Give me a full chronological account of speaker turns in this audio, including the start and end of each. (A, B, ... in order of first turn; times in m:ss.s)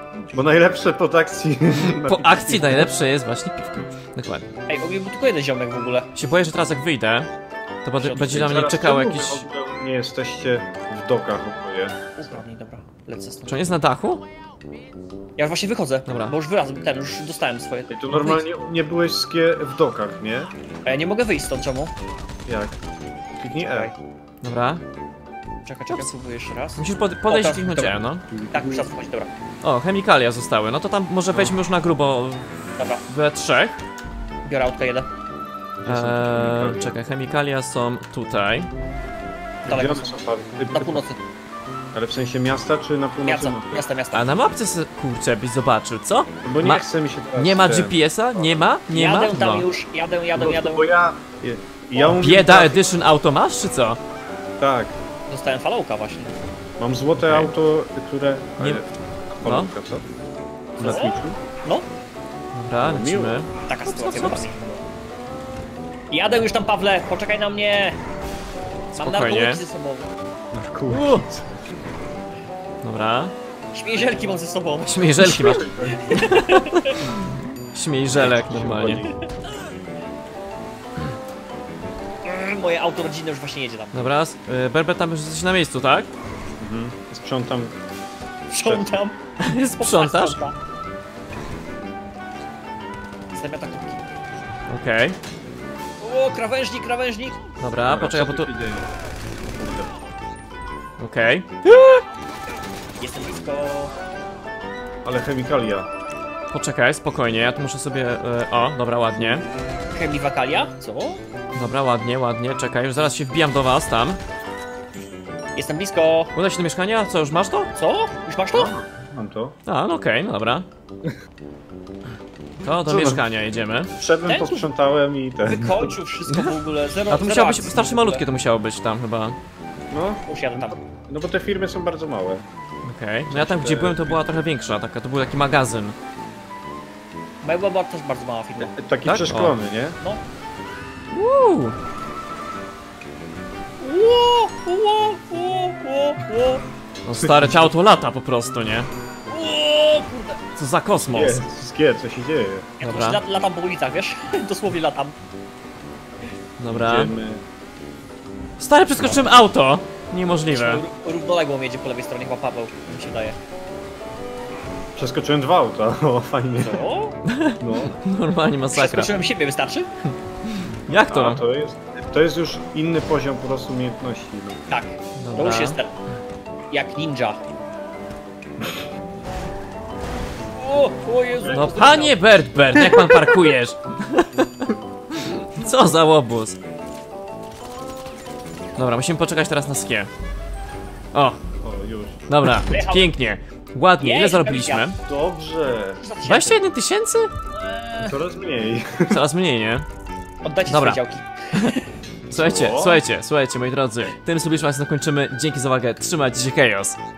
0:00.3-0:02.9 A
0:02.0-0:04.4 B
0:04.7-0:06.1 C
0:06.2-0:07.3 B
0:07.8-0:09.4 B
0:08.0-0:12.4 A
0:12.2-0:13.6 C
0:13.5-0:14.2 B
0:15.4-0:18.4 C
0:16.1-0:16.4 B
0:17.9-0:20.5 A
0:20.9-0:21.9 C
0:22.5-0:22.8 A
0:23.4-0:23.9 A
0:24.4-0:24.8 B
0:25.7-0:28.0 C
0:26.8-0:28.3 B
0:28.3-0:28.9 A
0:28.5-0:29.3 C
0:29.6-0:33.8 B
0:32.8-0:33.0 C
0:34.4-0:35.1 C
0:35.8-0:37.0 A
0:35.8-0:38.7 B
0:39.6-0:41.0 A
0:39.6-0:41.2 C
0:41.9-0:43.9 A
0:43.2-0:44.3 C
0:44.1-0:46.8 B
0:46.4-0:48.6 A
0:47.4-0:49.7 B
0:48.9-0:50.9 C
0:50.4-0:52.8 A
0:52.0-0:54.0 B
0:54.6-0:55.0 A
0:55.3-0:56.3 C
0:56.8-1:00.1 A
0:57.2-0:57.5 B
0:59.4-0:59.7 B
1:00.8-1:01.4 A
1:00.8-1:01.9 C
1:02.5-1:04.5 B
1:02.8-1:03.4 A
1:03.7-1:04.8 C
1:06.1-1:08.0 C
1:09.0-1:09.6 B
1:09.0-1:10.1 C
1:10.5-1:11.8 A
1:10.9-1:11.3 B
1:12.8-1:13.3 B
1:13.7-1:17.0 C
1:14.8-1:19.1 B
1:15.5-1:16.0 A
1:18.1-1:19.2 A
1:22.2-1:24.0 C
1:23.9-1:26.1 B
1:26.6-1:27.8 A
1:28.5-1:30.6 C
1:29.4-1:30.4 B
1:33.3-1:34.0 C
1:34.7-1:35.2 B
1:36.0-1:37.4 C
1:37.6-1:38.5 B
1:37.9-1:38.9 A
1:39.4-1:39.9 A
1:41.0-1:42.0 B
1:43.0-1:43.9 C
1:45.0-1:45.9 A
1:46.5-1:49.4 B
1:49.9-1:51.2 C
1:51.6-1:54.2 B
1:55.6-1:56.3 C
1:56.4-1:57.7 B
1:57.8-1:58.7 C
1:58.5-1:59.6 A
1:59.7-2:00.7 B
2:02.6-2:03.9 B
2:02.8-2:03.2 A
2:04.0-2:06.0 A
2:04.3-2:04.7 C
2:05.4-2:08.2 C
2:06.3-2:06.6 B
2:07.1-2:09.4 B
2:09.9-2:12.4 A
2:10.3-2:10.8 C
2:12.8-2:16.0 B
2:13.3-2:14.2 A
2:17.4-2:18.7 C
2:18.6-2:20.0 A
2:19.0-2:19.6 B
2:21.1-2:21.8 B
2:23.8-2:26.6 C
2:27.0-2:28.9 B
2:27.2-2:27.7 A
2:29.3-2:30.4 C
2:30.6-2:31.4 B
2:31.1-2:32.7 A
2:32.8-2:35.1 C
2:32.8-2:33.2 B
2:36.6-2:37.1 B
2:36.7-2:37.4 A
2:38.6-2:40.8 B
2:39.0-2:39.3 A
2:40.5-2:43.4 C
2:45.0-2:46.9 A
2:46.6-2:47.2 C
2:47.2-2:49.2 B
2:47.6-2:48.0 A
2:48.7-2:49.9 C
2:50.1-2:51.4 B
2:51.1-2:54.6 A
2:54.7-2:55.9 C
2:55.2-2:55.8 B
2:56.7-2:57.4 C
3:00.6-3:02.2 C
3:01.5-3:06.6 B
3:02.8-3:03.1 A
3:08.8-3:10.1 B
3:11.6-3:12.7 A
3:12.3-3:15.0 B
3:12.7-3:13.1 C
3:14.0-3:14.9 C
3:15.1-3:16.0 A
3:16.0-3:16.6 C
3:16.2-3:17.3 B
3:17.6-3:18.2 C
3:18.0-3:19.2 A
3:19.1-3:19.9 B
3:20.4-3:21.9 C
3:20.7-3:21.0 B
3:22.3-3:23.0 A
3:22.3-3:27.0 B